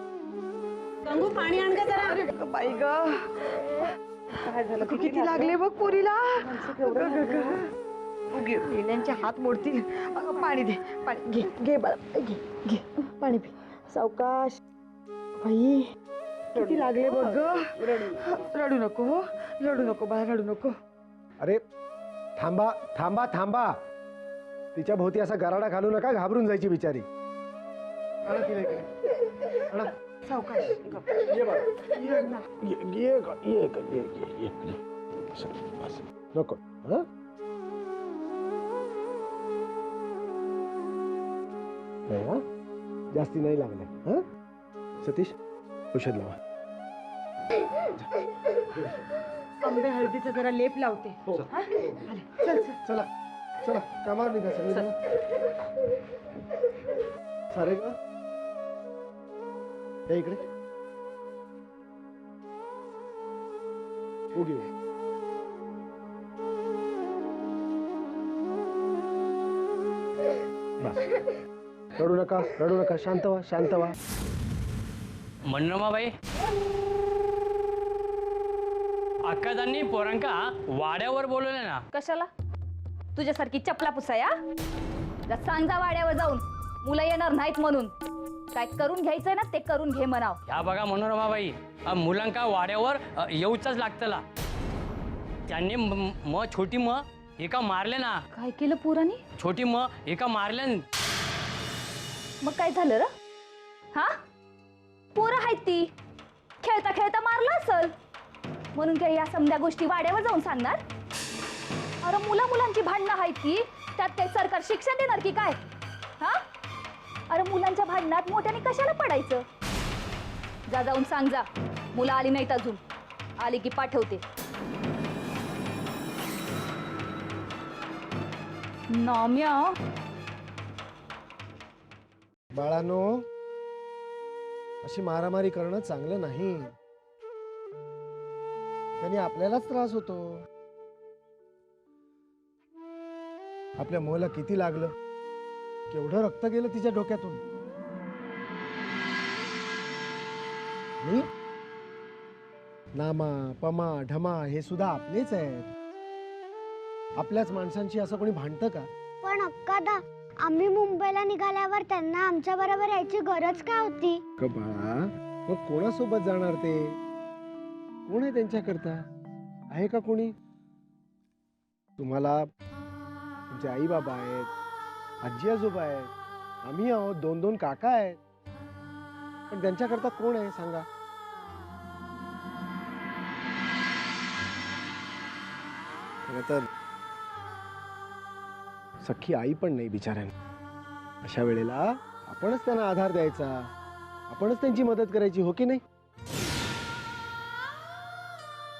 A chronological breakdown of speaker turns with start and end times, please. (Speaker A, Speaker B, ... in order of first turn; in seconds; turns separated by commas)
Speaker A: 1.1-2.3, Speaker B: 2.3-3.2, Speaker B: 4.4-7.6, Speaker A: 6.6-7.5, Speaker A: 8.3-8.6, Speaker B: 8.6-14.6, Speaker B: 15.4-15.8, Speaker B: 16.5-20.7, Speaker C: 22.4-23.7, Speaker C: 24.7-27.0, Speaker C: 28.2-28.9, Speaker B: 30.2-30.7, Speaker A: 30.8-31.0, Speaker C: 31.2-34.8, Speaker C: 35.3-37.0, Speaker C: 42.1-42.4, Speaker C: 43.1-44.2, Speaker C: 45.0-45.3, Speaker C: 45.9-46.4, Speaker B: 49.6-52.8, Speaker C: 53.6-54.9, Speaker C: 57.5-57.9, Speaker C: 60.1-60.4, Speaker C: 64.3-64.7, Speaker C: 72.0-73.9, Speaker D: 75.5-76.1, Speaker D: 79.2-81.8, Speaker E: 81.9-82.3, Speaker E: 83.2-84.3, Speaker E: 85.3-87.9, Speaker E: 88.5-90.4, Speaker D: 90.5-94.2, Speaker D: 95.5-98.2, Speaker E: 98.4-99.1, Speaker D: 99.4-100.8, Speaker E: 102.4-103.1, Speaker E: 105.1-105.9, Speaker E: 106.6-107.9, Speaker E: 108.7-110.8, Speaker E: 112.0-115.6, Speaker E: 117.3-119.4, Speaker E: 120.7-122.8, Speaker E: 123.4-124.2, Speaker E: 128.9-129.7, Speaker C: 132.5-133.2, Speaker C: 134.8-136.7, Speaker C: 139.0-140.4, Speaker C: 143.8-144.9, Speaker C: 145.9-147.4, Speaker C: 152.9-155.7, Speaker C: 157.2-158.9, Speaker F: 159.2-164.2, Speaker C: 164.4-166.9, Speaker C: 168.1-169.0, Speaker C: 169.7-170.3, Speaker C: 172.0-172.4, Speaker C: 173.5-174.5, Speaker C: 175.2-176.1, Speaker C: 176.6-178.2, Speaker C: 179.5-180.8, Speaker C: 186.3-186.7, Speaker C: 189.0-190.3, Speaker C: 191.2-193.6, Speaker C: 194.3-195.8